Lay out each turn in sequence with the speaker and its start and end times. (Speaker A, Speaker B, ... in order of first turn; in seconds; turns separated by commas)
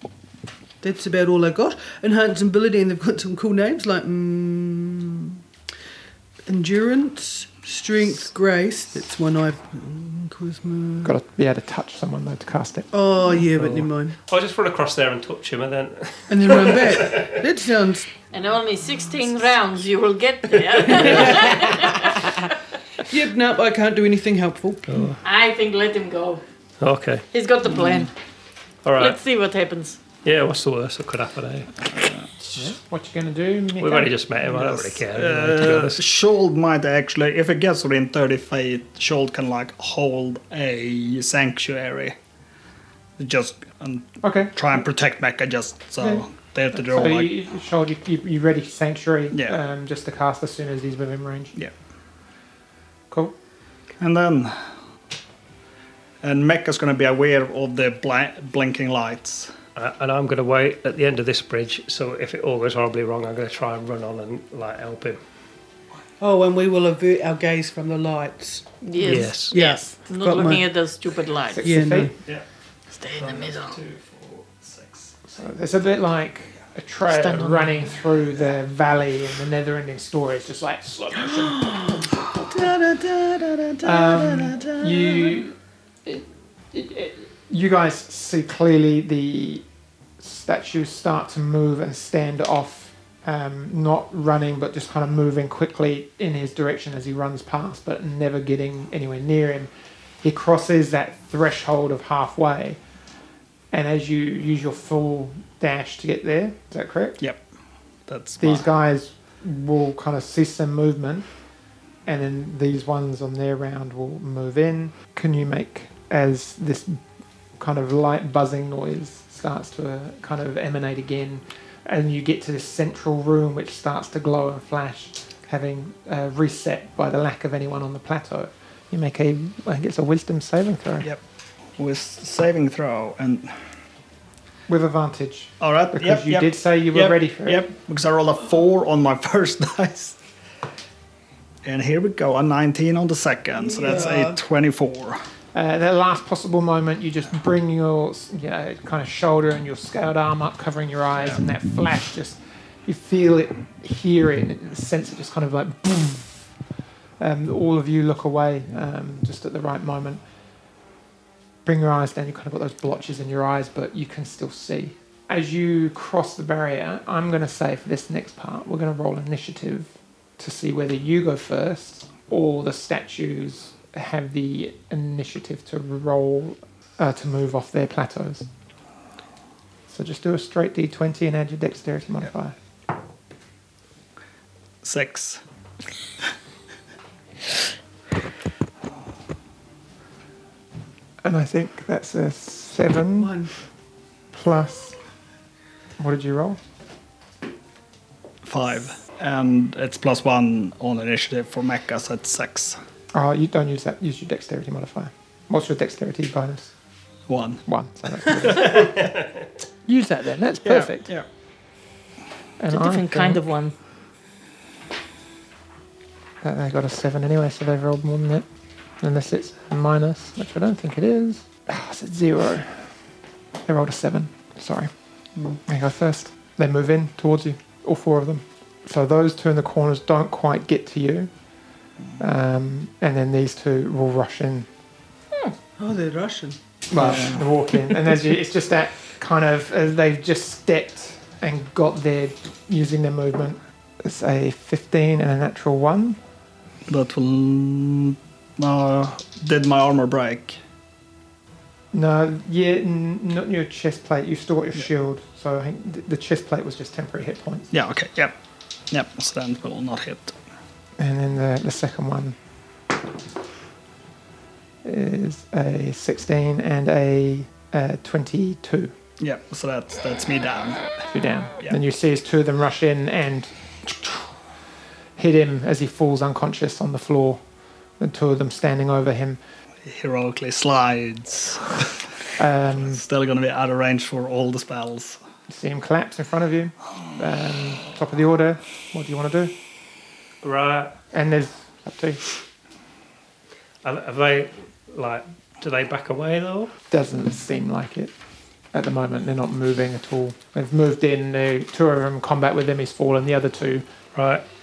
Speaker A: 0.8-5.4, Speaker A: 6.5-11.1, Speaker B: 11.0-12.9, Speaker A: 12.9-14.2, Speaker C: 13.5-17.4, Speaker A: 16.3-18.1, Speaker D: 18.3-22.5, Speaker A: 20.8-21.9, Speaker C: 20.9-21.4, Speaker A: 23.1-25.1, Speaker C: 24.9-25.2, Speaker D: 25.2-26.4, Speaker C: 26.8-27.3, Speaker D: 27.3-28.1, Speaker C: 28.8-29.2, Speaker D: 28.9-30.0, Speaker C: 30.2-31.8, Speaker E: 31.9-32.3, Speaker B: 32.5-34.1, Speaker C: 33.8-36.0, Speaker E: 34.5-42.2, Speaker E: 43.2-47.3, Speaker B: 44.2-44.5, Speaker B: 46.0-51.6, Speaker E: 49.3-49.6, Speaker E: 54.0-54.7, Speaker E: 56.2-59.5, Speaker C: 59.8-65.2, Speaker A: 66.2-70.7, Speaker D: 68.8-71.7, Speaker C: 69.0-69.6, Speaker B: 71.5-72.1, Speaker A: 71.6-72.2, Speaker D: 73.0-73.8, Speaker E: 73.1-75.2, Speaker B: 75.3-82.0, Speaker D: 77.1-77.8, Speaker A: 81.3-85.4, Speaker B: 83.8-89.6, Speaker B: 90.2-99.7, Speaker B: 100.2-102.8, Speaker B: 103.7-107.2, Speaker E: 108.1-108.7, Speaker B: 108.4-111.3, Speaker B: 112.1-117.0, Speaker B: 117.6-131.1, Speaker E: 131.8-133.6, Speaker B: 134.7-137.7, Speaker E: 135.6-140.2, Speaker E: 141.6-145.2, Speaker A: 143.5-144.4, Speaker B: 145.5-156.5, Speaker B: 157.2-160.2, Speaker B: 161.6-178.5, Speaker B: 179.9-182.6, Speaker E: 184.8-185.4, Speaker B: 191.2-193.4, Speaker A: 193.2-193.5, Speaker B: 194.3-194.9, Speaker B: 196.0-196.6, Speaker E: 198.4-202.8, Speaker B: 203.1-206.7, Speaker E: 207.3-207.6, Speaker B: 207.7-209.0, Speaker C: 208.6-209.3, Speaker B: 209.8-211.1, Speaker E: 210.6-211.3, Speaker B: 212.6-213.4, Speaker D: 212.7-213.7, Speaker B: 216.4-218.4, Speaker B: 219.0-222.9, Speaker B: 223.6-224.9, Speaker B: 225.7-231.3, Speaker B: 232.2-234.7, Speaker A: 235.8-236.6, Speaker B: 236.9-246.2, Speaker E: 236.9-237.4, Speaker E: 246.9-250.6, Speaker B: 251.9-257.7, Speaker E: 257.7-258.4, Speaker E: 258.9-260.4, Speaker B: 261.0-262.4, Speaker B: 264.8-268.9, Speaker E: 269.2-270.9, Speaker B: 271.1-274.4, Speaker B: 275.2-277.4, Speaker B: 278.0-279.4, Speaker E: 279.8-282.1, Speaker B: 282.4-283.0, Speaker E: 282.8-285.2, Speaker B: 285.5-289.6, Speaker C: 290.4-290.9, Speaker B: 291.1-292.2, Speaker C: 293.8-296.7, Speaker B: 296.9-298.1, Speaker B: 298.7-303.9, Speaker C: 304.1-304.4